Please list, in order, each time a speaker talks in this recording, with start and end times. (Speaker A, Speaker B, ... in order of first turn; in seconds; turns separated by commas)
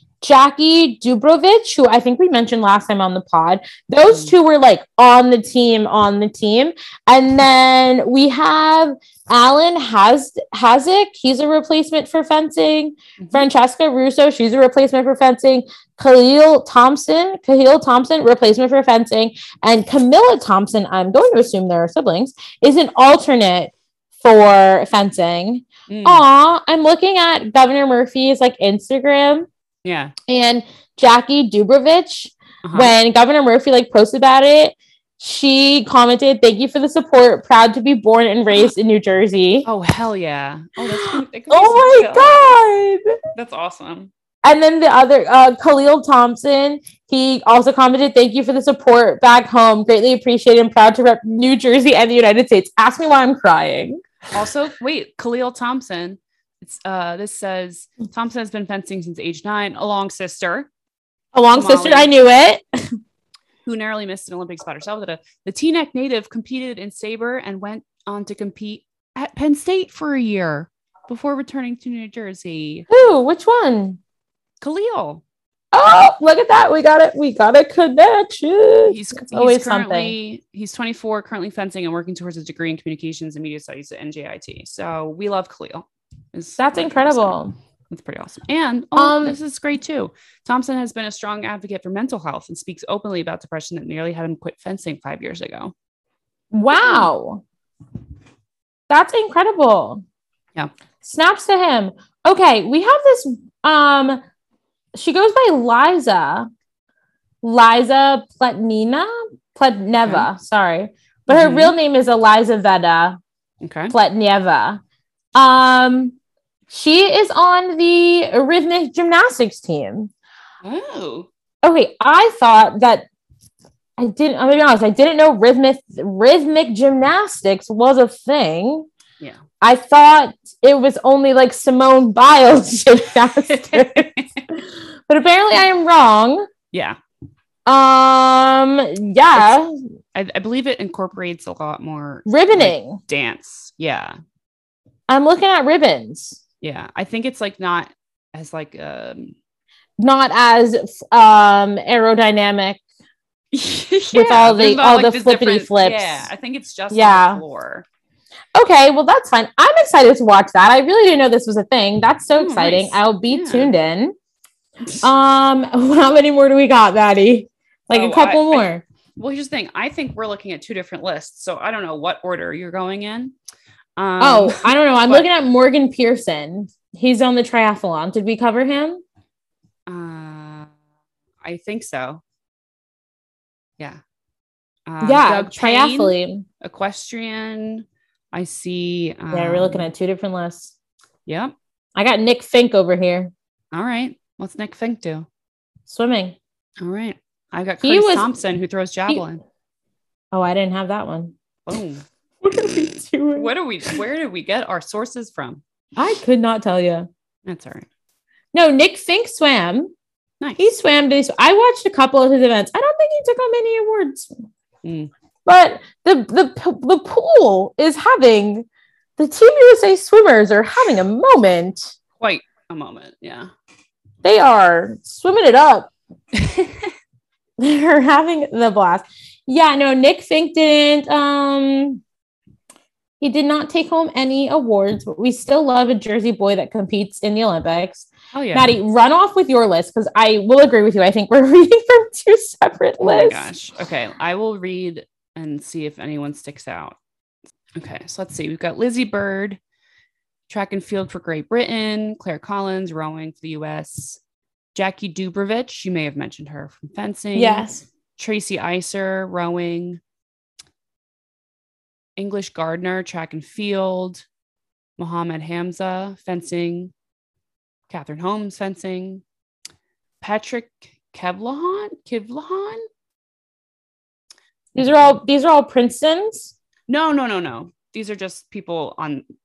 Speaker A: 0.2-29.5, Speaker B: 4.1-4.3, Speaker B: 13.2-13.5, Speaker B: 25.9-26.2, Speaker B: 29.8-30.1, Speaker A: 30.3-39.7, Speaker B: 32.6-32.9, Speaker B: 39.6-42.6, Speaker A: 40.9-43.1, Speaker B: 43.3-44.1, Speaker A: 44.4-54.0, Speaker B: 54.3-60.7, Speaker A: 61.3-62.6, Speaker B: 61.5-62.1, Speaker B: 63.6-72.8, Speaker A: 72.9-74.0, Speaker B: 74.6-75.2, Speaker A: 75.7-80.1, Speaker B: 78.8-87.3, Speaker A: 86.6-87.5, Speaker B: 87.9-95.7, Speaker A: 89.0-89.4, Speaker A: 96.5-97.4, Speaker B: 96.7-97.1, Speaker A: 98.9-100.0, Speaker A: 101.0-104.2, Speaker A: 104.9-106.5, Speaker A: 107.4-113.2, Speaker B: 110.0-110.3, Speaker B: 111.3-111.7, Speaker B: 113.6-113.9, Speaker A: 113.9-114.8, Speaker A: 115.3-116.2, Speaker A: 116.7-120.1, Speaker B: 120.6-121.3, Speaker A: 121.6-123.0, Speaker A: 124.0-128.9, Speaker A: 129.6-136.5, Speaker B: 133.5-134.4, Speaker B: 136.7-137.0, Speaker A: 137.7-139.7, Speaker B: 140.1-144.2, Speaker A: 142.2-143.0, Speaker A: 145.1-146.4, Speaker B: 146.6-149.3, Speaker A: 150.0-152.8, Speaker B: 153.5-157.8, Speaker A: 154.1-156.3, Speaker A: 156.9-157.4, Speaker A: 158.5-164.1, Speaker B: 162.4-163.7, Speaker A: 165.0-168.8, Speaker B: 167.9-173.3, Speaker B: 174.0-175.3, Speaker A: 174.2-179.0, Speaker B: 179.9-180.7, Speaker B: 181.4-182.2, Speaker B: 184.9-189.9, Speaker A: 185.0-186.4, Speaker A: 189.3-190.7, Speaker B: 191.2-191.5, Speaker A: 191.9-193.3, Speaker B: 193.7-195.3, Speaker A: 195.9-196.3, Speaker B: 196.8-199.4, Speaker A: 197.8-198.3, Speaker A: 200.3-201.3, Speaker B: 201.7-202.0, Speaker A: 202.4-204.0, Speaker B: 203.3-205.6, Speaker A: 205.9-207.1, Speaker B: 207.4-207.9, Speaker A: 208.5-209.9, Speaker A: 210.6-214.3, Speaker B: 214.8-215.1, Speaker A: 215.4-218.7, Speaker A: 219.2-221.9, Speaker B: 222.2-223.5, Speaker A: 224.2-225.9, Speaker B: 226.3-226.7, Speaker A: 227.6-232.0, Speaker A: 233.2-243.5, Speaker B: 238.3-238.8, Speaker B: 243.0-247.0, Speaker B: 247.7-249.6, Speaker B: 250.5-254.2, Speaker B: 254.7-260.0, Speaker A: 257.3-257.9, Speaker B: 262.2-264.2, Speaker B: 265.0-266.9, Speaker B: 267.9-269.2, Speaker B: 270.2-272.8, Speaker A: 274.7-276.5, Speaker B: 274.8-275.1, Speaker B: 276.9-279.2